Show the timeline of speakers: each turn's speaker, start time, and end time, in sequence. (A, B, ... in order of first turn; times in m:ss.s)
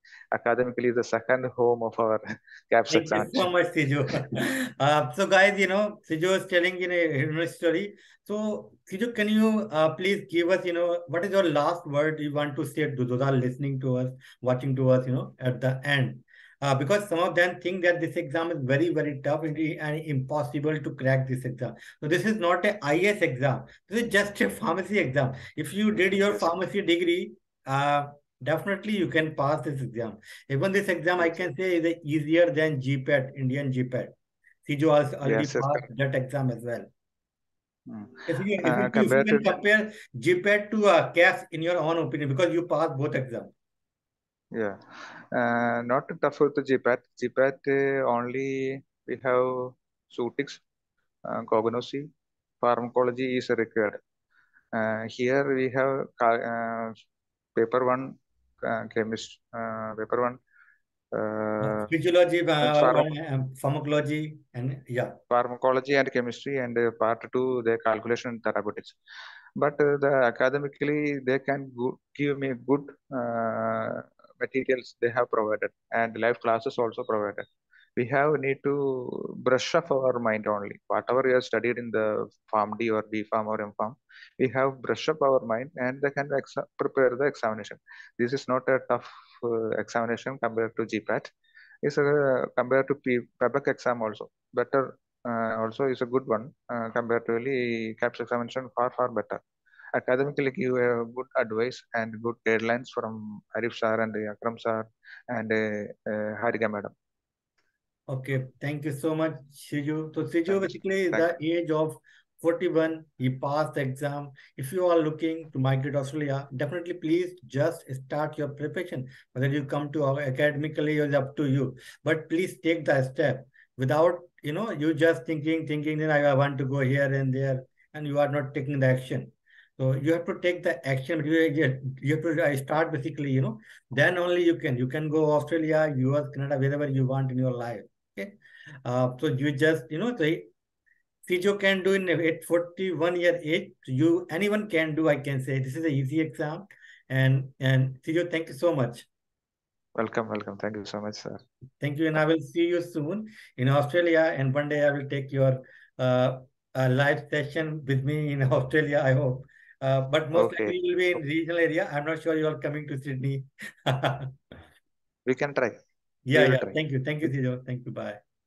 0:00.3-0:03.5 A
0:02.9-0:34.1 B
0:26.3-0:26.5 A
0:31.2-0:31.4 A
0:34.6-0:36.9 B
0:35.2-0:35.9 A
0:37.9-0:39.6 A
0:38.3-0:43.5 B
0:45.3-0:50.6 A
0:51.3-0:52.1 A
0:52.6-0:54.0 A
0:54.7-0:57.0 A
0:57.6-1:00.4 A
1:01.1-1:01.9 A
1:01.6-1:05.2 B
1:02.6-1:03.1 A
1:05.3-1:09.0 A
1:09.6-1:17.4 A
1:18.0-1:31.3 A
1:31.8-1:39.4 A
1:39.9-1:46.9 A
1:48.1-2:18.3 B
1:50.5-1:51.3 A
2:18.8-2:20.5 B
2:21.2-2:29.1 B
2:30.0-2:31.4 A
2:31.8-2:44.4 B
2:40.3-2:40.8 A
2:45.3-2:45.8 A
2:46.3-2:48.2 B
2:46.3-2:47.3 A